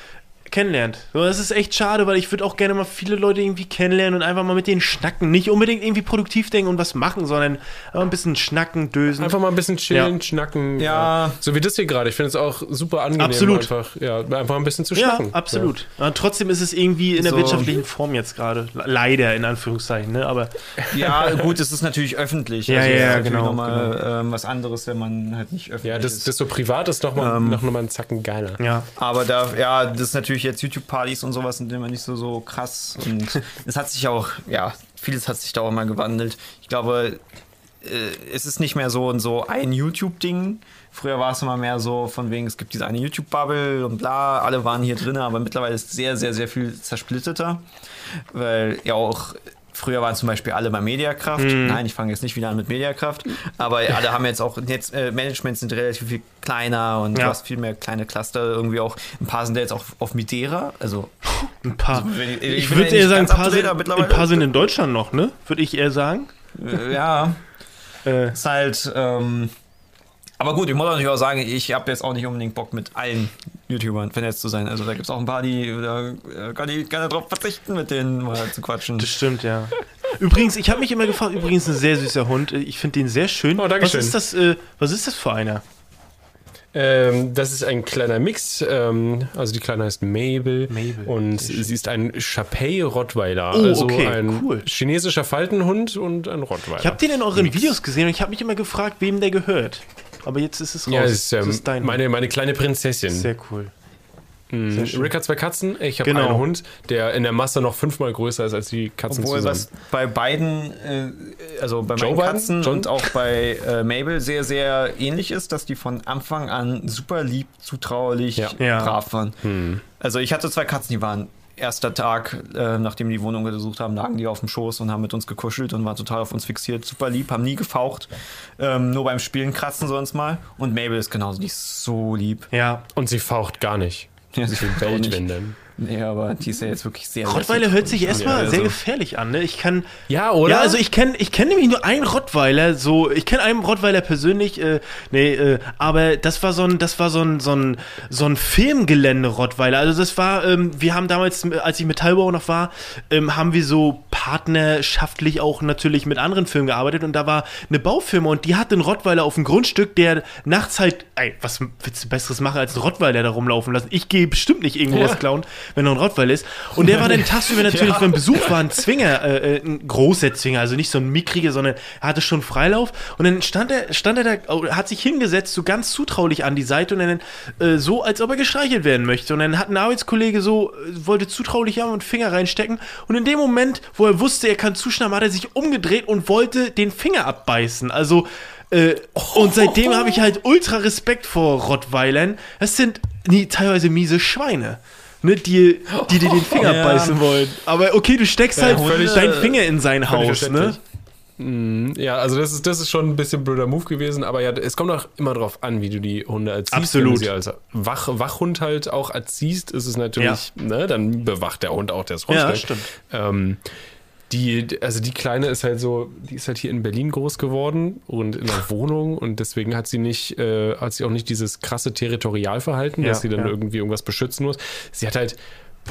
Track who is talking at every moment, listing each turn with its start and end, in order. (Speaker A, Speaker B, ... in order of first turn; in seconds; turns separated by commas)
Speaker A: 0.5-9.4, Speaker B: 9.2-15.7, Speaker C: 10.8-11.4, Speaker A: 13.2-13.7, Speaker A: 14.9-21.1, Speaker C: 17.1-17.7, Speaker C: 20.9-26.3, Speaker A: 22.7-23.9, Speaker B: 22.8-23.2, Speaker B: 25.8-28.6, Speaker C: 27.1-27.6, Speaker A: 28.6-28.9, Speaker C: 28.9-37.2, Speaker C: 37.8-61.1, Speaker A: 51.4-51.8, Speaker A: 61.4-66.3, Speaker C: 61.9-64.4, Speaker C: 66.6-67.4, Speaker A: 68.0-68.3, Speaker C: 68.3-69.5, Speaker C: 70.4-79.1, Speaker A: 79.0-85.6, Speaker B: 83.5-84.2, Speaker B: 86.7-97.8, Speaker A: 90.7-91.7, Speaker A: 93.5-94.7, Speaker A: 96.8-102.0, Speaker B: 100.9-103.3, Speaker A: 103.1-103.7, Speaker B: 104.5-109.7, Speaker A: 104.7-105.1, Speaker A: 106.0-106.4, Speaker C: 109.1-119.4, Speaker B: 112.0-112.9, Speaker A: 118.6-119.0, Speaker B: 119.4-119.8, Speaker C: 120.0-132.5, Speaker A: 132.5-132.8, Speaker B: 132.9-135.6, Speaker C: 134.3-138.8, Speaker A: 137.2-139.9, Speaker B: 138.1-138.7, Speaker B: 140.1-140.8, Speaker A: 140.4-200.8, Speaker B: 164.9-165.2, Speaker C: 167.6-168.2, Speaker B: 189.2-190.2, Speaker B: 195.9-196.7, Speaker C: 196.6-197.2, Speaker B: 198.6-199.4, Speaker C: 198.6-199.6, Speaker B: 200.1-200.8, Speaker B: 201.4-213.6, Speaker A: 206.7-207.3, Speaker A: 210.2-210.4, Speaker A: 212.3-212.9, Speaker B: 214.3-225.4, Speaker A: 223.0-223.5